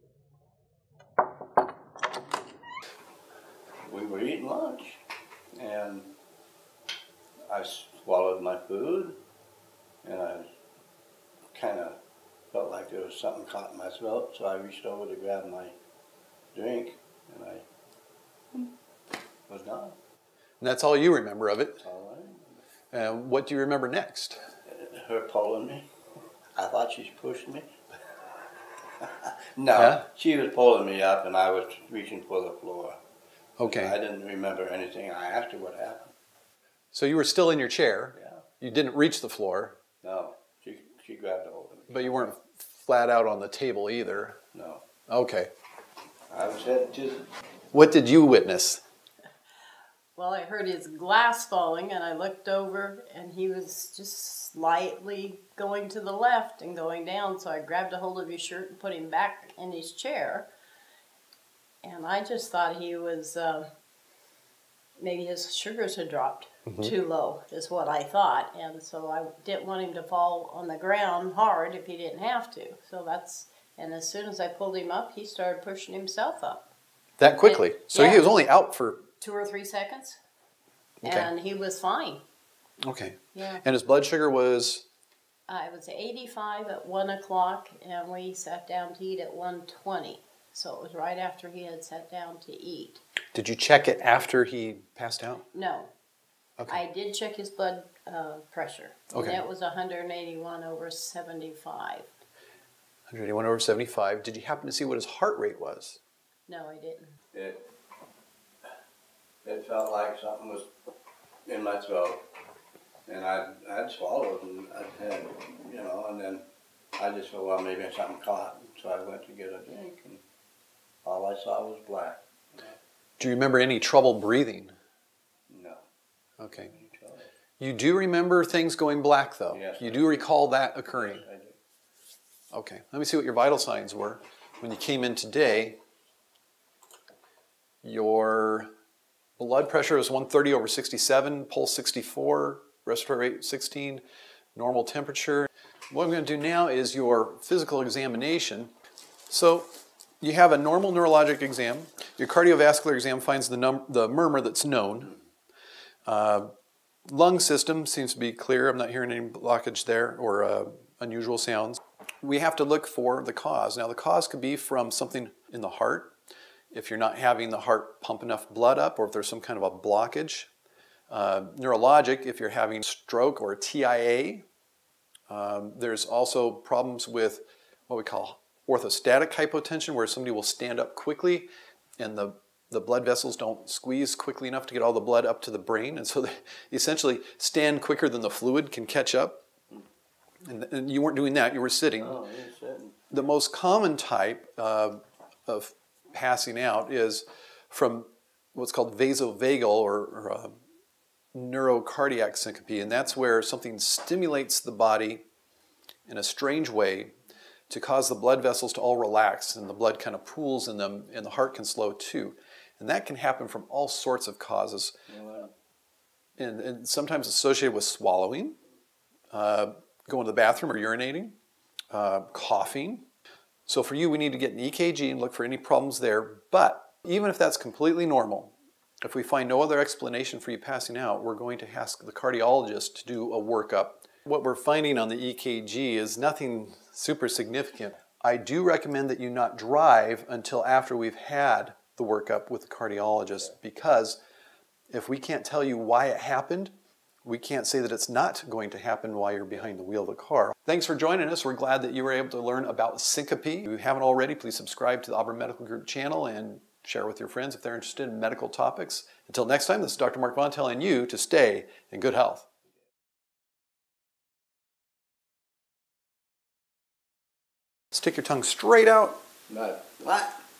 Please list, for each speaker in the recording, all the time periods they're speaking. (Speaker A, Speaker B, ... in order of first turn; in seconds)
Speaker A: 3.9-5.0, 5.5-6.1, 7.5-9.2, 10.0-10.5, 11.5-12.0, 12.5-15.8, 16.5-17.6, 19.5-20.0, 21.8-22.6, 24.7-25.9, 26.6-27.8, 29.0-33.0, 33.6-36.1, 38.2-38.4, 40.0-42.3, 44.5-44.8, 46.3-47.3, 107.3-107.7, 109.4-110.7, 111.5-112.2, 113.1-116.4, 117.0-120.2, 121.0-122.8, 125.5-125.8, 126.7-127.3, 129.5-131.6, 192.0-193.0, 215.1-215.5, 269.5-270.4
Speaker B: 20.6-21.8, 22.9-24.4, 29.8-30.0, 33.6-34.0, 36.9-39.8, 41.9-44.4, 45.1-45.5, 47.7-48.8, 66.7-66.9, 77.2-79.0, 81.0-81.3, 82.8-84.9, 93.3-95.5, 99.1-99.4, 103.1-106.0, 123.2-124.8, 126.4-126.7, 127.6-131.2, 132.5-135.8, 137.8-138.7, 139.4-144.0, 144.6-148.7, 149.3-149.7, 150.2-155.1, 156.1-156.5, 157.1-166.2, 166.7-170.5, 171.1-174.4, 175.3-189.4, 190.4-192.2, 193.1-200.5, 201.3-205.2, 206.1-207.1, 207.7-215.0, 216.4-218.6, 219.3-221.4, 221.9-223.1, 223.7-244.2, 244.9-262.5, 267.9-269.2
Speaker C: 50.2-60.5, 61.8-63.7, 65.0-76.7, 77.4-78.3, 79.2-80.2, 81.0-82.2, 83.3-83.6, 85.5-93.0, 95.5-95.9, 96.7-102.1, 106.5-107.1